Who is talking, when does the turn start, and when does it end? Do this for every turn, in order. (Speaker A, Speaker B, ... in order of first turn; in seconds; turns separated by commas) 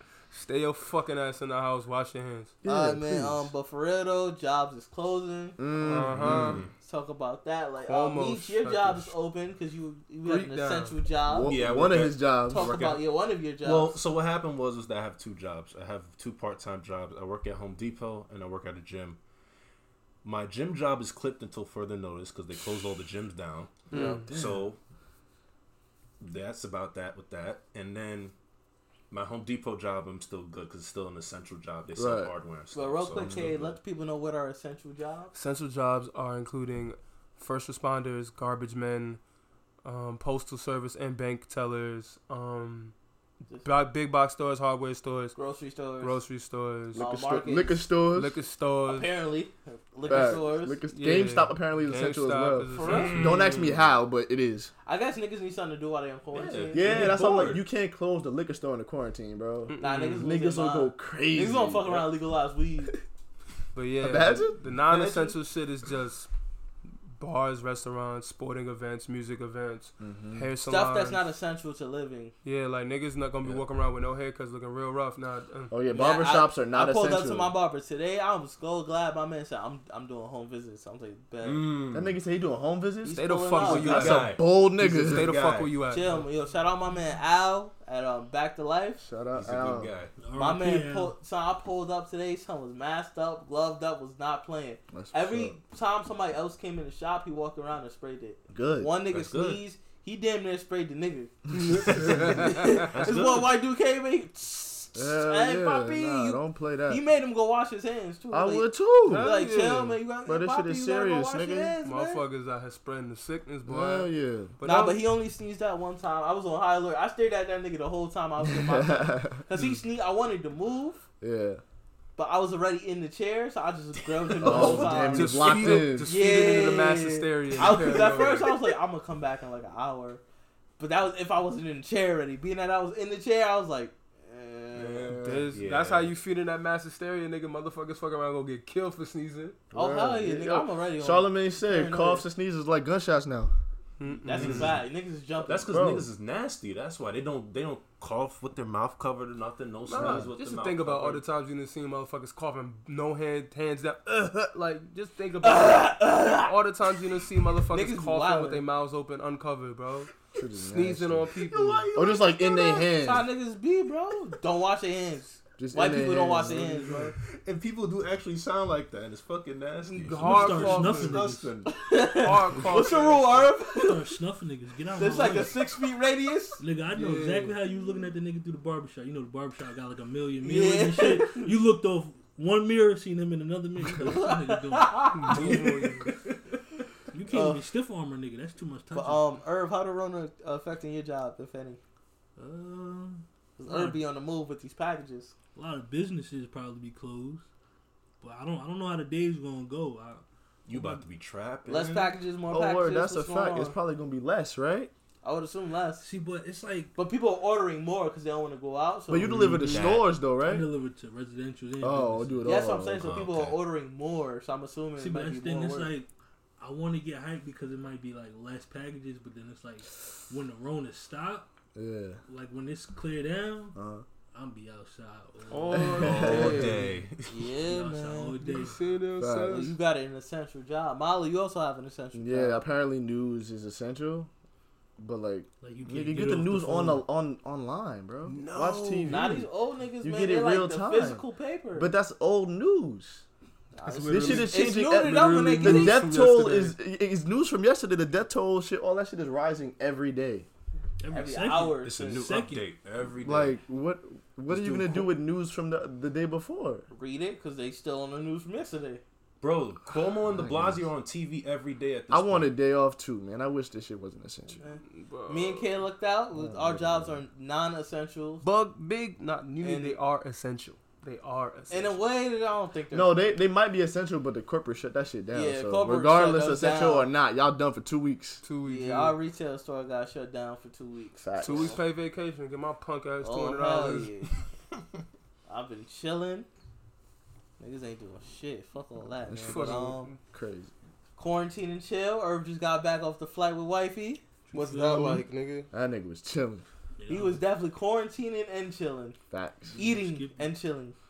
Speaker A: 0.3-2.5, Speaker B: 2.6-3.5, Speaker C: 2.6-5.6, Speaker B: 5.6-6.6, Speaker A: 5.8-6.6, Speaker D: 6.1-6.7, Speaker C: 6.8-11.6, Speaker A: 7.9-9.1, Speaker A: 10.2-10.9, Speaker B: 11.3-12.7, Speaker D: 11.4-13.1, Speaker C: 12.5-14.0, Speaker D: 13.6-19.2, Speaker D: 20.2-24.8, Speaker A: 23.9-24.3, Speaker C: 23.9-24.2, Speaker B: 23.9-24.7, Speaker D: 26.2-28.3, Speaker D: 29.1-33.8, Speaker B: 31.9-32.3, Speaker C: 32.7-35.3, Speaker B: 33.2-33.5, Speaker A: 35.3-39.2, Speaker A: 39.8-42.9, Speaker A: 43.6-45.4, Speaker C: 45.3-46.2, Speaker A: 46.0-47.0, Speaker C: 46.9-47.9, Speaker B: 46.9-48.4, Speaker A: 48.1-49.1, Speaker C: 48.9-50.8, Speaker B: 50.1-54.7, Speaker A: 50.9-53.7, Speaker C: 52.7-53.4, Speaker D: 52.8-53.5, Speaker C: 54.9-57.1, Speaker D: 56.3-57.6, Speaker B: 56.7-62.1, Speaker A: 59.7-60.3, Speaker C: 59.8-62.9, Speaker A: 63.7-66.3, Speaker B: 64.0-64.6, Speaker D: 64.9-65.3, Speaker A: 67.2-71.3, Speaker B: 70.0-70.5, Speaker C: 70.7-72.3, Speaker A: 72.4-75.7, Speaker B: 75.7-77.5, Speaker C: 75.9-81.7, Speaker D: 81.4-82.2, Speaker B: 81.9-85.3, Speaker C: 83.0-84.2, Speaker A: 83.1-86.1, Speaker D: 83.8-85.7, Speaker C: 85.9-89.0, Speaker B: 89.0-89.9, Speaker D: 89.3-90.1, Speaker E: 90.2-91.1, Speaker C: 90.3-112.2, Speaker B: 94.9-95.6, Speaker B: 98.5-98.9, Speaker D: 99.1-99.6, Speaker D: 101.5-103.5, Speaker A: 101.9-102.5, Speaker B: 104.9-107.0, Speaker B: 108.3-109.3, Speaker A: 109.0-110.0, Speaker B: 110.2-111.8, Speaker A: 111.8-115.0, Speaker B: 113.7-114.5, Speaker C: 114.6-121.0, Speaker B: 118.4-119.4, Speaker B: 121.2-121.6, Speaker C: 122.2-130.2, Speaker B: 124.4-126.2, Speaker D: 124.4-124.7, Speaker A: 124.5-128.7, Speaker C: 130.8-135.2, Speaker B: 134.8-135.5, Speaker A: 135.1-139.6, Speaker D: 135.5-136.1, Speaker B: 139.7-143.5, Speaker C: 139.7-142.2, Speaker A: 144.0-144.8, Speaker C: 144.0-145.7, Speaker D: 144.3-144.8, Speaker D: 145.4-151.2, Speaker B: 145.6-146.1, Speaker A: 149.9-161.9, Speaker B: 149.9-150.3, Speaker C: 155.4-156.5, Speaker C: 157.7-158.6, Speaker B: 160.3-161.3, Speaker D: 161.4-162.9, Speaker B: 161.9-163.2, Speaker C: 162.9-167.1, Speaker B: 165.6-167.1, Speaker D: 167.2-171.7, Speaker A: 169.9-171.2, Speaker E: 170.1-171.5, Speaker C: 171.7-174.1, Speaker A: 172.1-173.5, Speaker E: 173.7-175.7, Speaker C: 174.9-176.6, Speaker E: 176.6-185.6, Speaker A: 176.9-177.6, Speaker C: 180.4-181.5, Speaker C: 184.0-185.8, Speaker A: 185.1-186.1, Speaker E: 187.1-189.3, Speaker C: 187.3-187.6, Speaker C: 188.9-191.8, Speaker E: 192.4-194.0, Speaker C: 193.6-195.3, Speaker E: 195.5-197.5, Speaker E: 198.2-201.0, Speaker D: 200.7-202.2, Speaker C: 201.7-203.8, Speaker B: 202.5-204.9, Speaker C: 205.2-206.1, Speaker E: 206.0-206.9, Speaker C: 206.9-209.7, Speaker B: 209.1-210.7, Speaker D: 209.6-210.1, Speaker E: 210.3-212.5, Speaker B: 211.8-213.1, Speaker C: 212.4-215.9, Speaker D: 213.0-213.6, Speaker E: 215.0-221.5, Speaker B: 221.7-222.2, Speaker E: 222.3-223.8, Speaker B: 223.7-224.1, Speaker E: 224.3-226.6, Speaker A: 225.5-226.9, Speaker B: 225.7-226.8, Speaker D: 226.0-227.5, Speaker C: 227.3-228.4, Speaker E: 227.6-228.8, Speaker A: 228.4-229.8, Speaker B: 229.2-229.7, Speaker C: 229.5-232.6, Speaker B: 232.1-234.3, Speaker B: 235.0-239.4, Speaker E: 235.6-237.0, Speaker A: 238.2-239.4, Speaker C: 239.1-241.9, Speaker B: 240.0-241.2, Speaker B: 241.8-243.2, Speaker C: 243.8-246.1, Speaker A: 243.9-246.8, Speaker E: 243.9-244.4, Speaker B: 244.1-250.5, Speaker E: 251.0-252.7, Speaker C: 251.1-252.3, Speaker D: 251.8-253.6, Speaker B: 253.2-256.9, Speaker D: 254.5-254.8, Speaker C: 256.9-259.0, Speaker D: 259.4-262.5, Speaker B: 260.2-260.9, Speaker B: 262.1-264.6, Speaker C: 264.6-268.4, Speaker A: 264.9-265.7, Speaker B: 266.3-267.2, Speaker A: 268.4-272.0, Speaker C: 269.6-270.0, Speaker C: 271.7-273.1, Speaker B: 272.9-278.4, Speaker C: 275.3-277.1, Speaker A: 278.4-279.1, Speaker C: 278.6-281.8, Speaker B: 281.2-281.8, Speaker A: 281.4-284.1, Speaker C: 283.2-284.3, Speaker C: 285.5-286.5, Speaker C: 287.6-290.1, Speaker B: 289.3-290.7, Speaker A: 289.4-290.2, Speaker C: 291.2-294.2, Speaker E: 294.5-295.2, Speaker A: 294.5-295.7, Speaker B: 295.7-296.6, Speaker E: 297.0-297.4, Speaker C: 297.1-299.2, Speaker B: 299.3-299.8, Speaker E: 299.7-300.5, Speaker C: 299.8-300.9